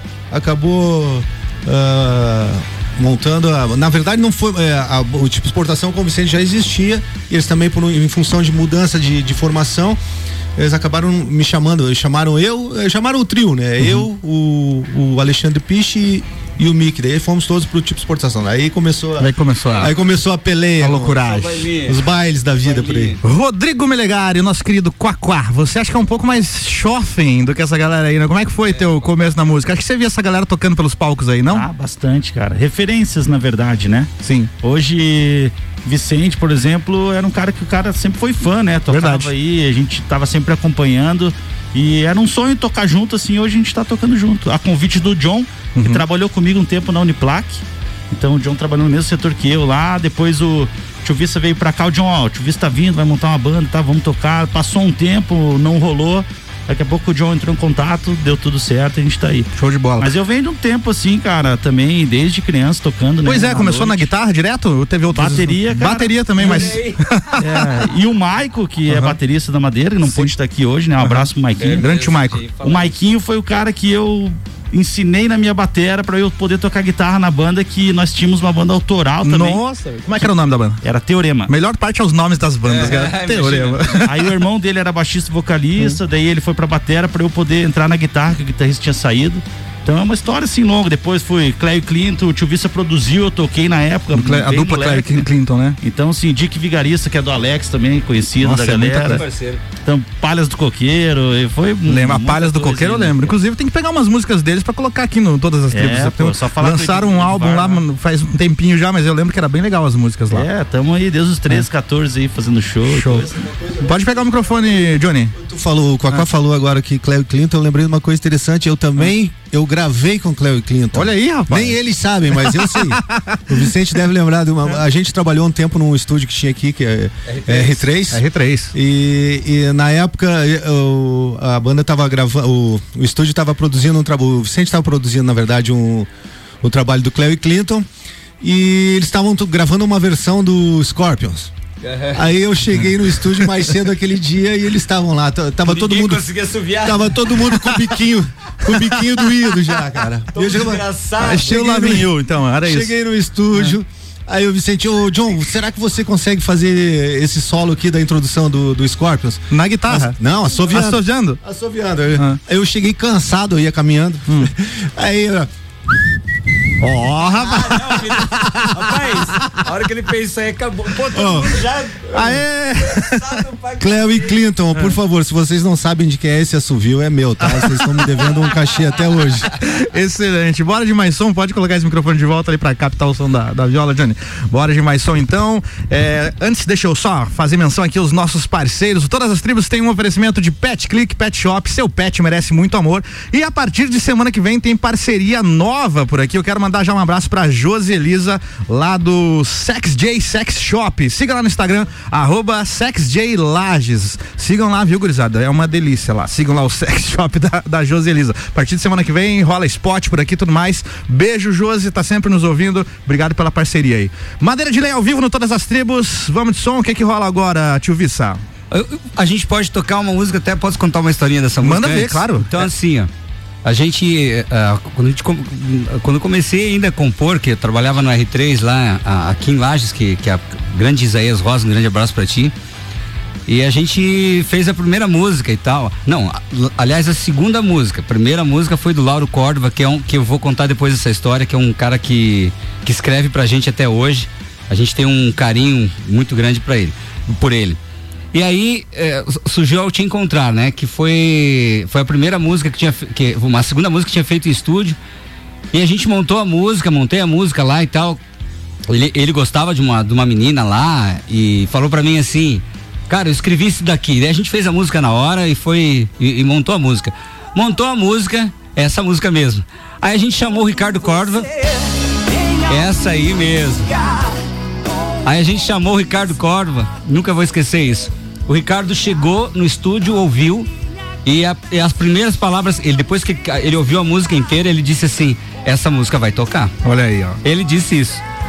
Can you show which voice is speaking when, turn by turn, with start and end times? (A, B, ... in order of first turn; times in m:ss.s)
0:00.3-0:10.0 A
0:10.6-0:21.2 A
0:13.8-0:14.0 B
0:19.2-0:19.9 B
0:20.8-0:21.7 B
0:21.0-0:22.0 C
0:21.8-0:23.2 A
0:22.6-0:23.2 C
0:23.2-0:31.6 B
0:28.7-0:28.9 C
0:31.5-0:34.1 D
0:34.2-0:34.5 B
0:34.6-0:59.5 D
0:38.9-0:39.3 B
0:45.8-0:46.0 B
0:59.6-1:00.1 B
1:00.0-1:04.1 D
1:03.2-1:07.9 B
1:05.1-1:06.7 D
1:06.4-1:07.0 C
1:07.4-1:11.9 D
1:08.9-1:09.2 B
1:10.0-1:10.3 B
1:11.0-1:12.4 B
1:11.6-1:12.9 C
1:12.6-1:19.6 D
1:19.2-1:20.8 B
1:20.8-1:21.5 D
1:21.5-1:24.3 B
1:22.6-1:24.0 C
1:22.8-1:23.1 D
1:24.0-1:35.3 D
1:34.1-1:35.8 B
1:35.8-1:39.2 D
1:38.4-1:39.2 B
1:39.0-1:39.6 C
1:39.8-1:43.4 D
1:41.8-1:50.5 B
1:45.7-1:47.8 D
1:50.3-1:53.3 D
1:52.8-1:53.3 B
1:53.5-1:54.2 A
1:53.8-1:55.4 B
1:55.3-2:08.2 A
2:00.9-2:01.8 B
2:02.4-2:03.7 B
2:07.2-2:07.9 C
2:08.1-2:08.7 B
2:08.7-2:16.1 A
2:16.6-2:17.9 A
2:18.4-2:21.5 A
2:21.8-2:22.2 C
2:22.1-2:26.2 A
2:25.6-2:27.4 C
2:26.8-2:32.1 A
2:28.6-2:29.6 B
2:30.3-2:31.8 C
2:31.2-2:32.9 B
2:32.6-2:45.5 A
2:39.5-2:40.2 B
2:40.7-2:41.4 B
2:46.8-2:48.7 B
2:47.4-2:54.3 C
2:51.1-2:51.6 A
2:52.1-2:53.3 B
2:53.8-2:59.5 A
2:57.4-2:58.1 B
2:59.6-3:38.4 B
3:38.7-3:43.1 C
3:41.6-3:42.6 B
3:43.6-3:52.5 C
3:53.5-4:07.8 C
4:08.3-4:15.0 C
4:15.7-4:18.2 C
4:18.9-4:31.6 C
4:32.6-4:34.3 C
4:35.2-4:40.7 C
4:41.2-4:46.7 C
4:46.8-4:47.4 B
4:47.4-4:48.2 C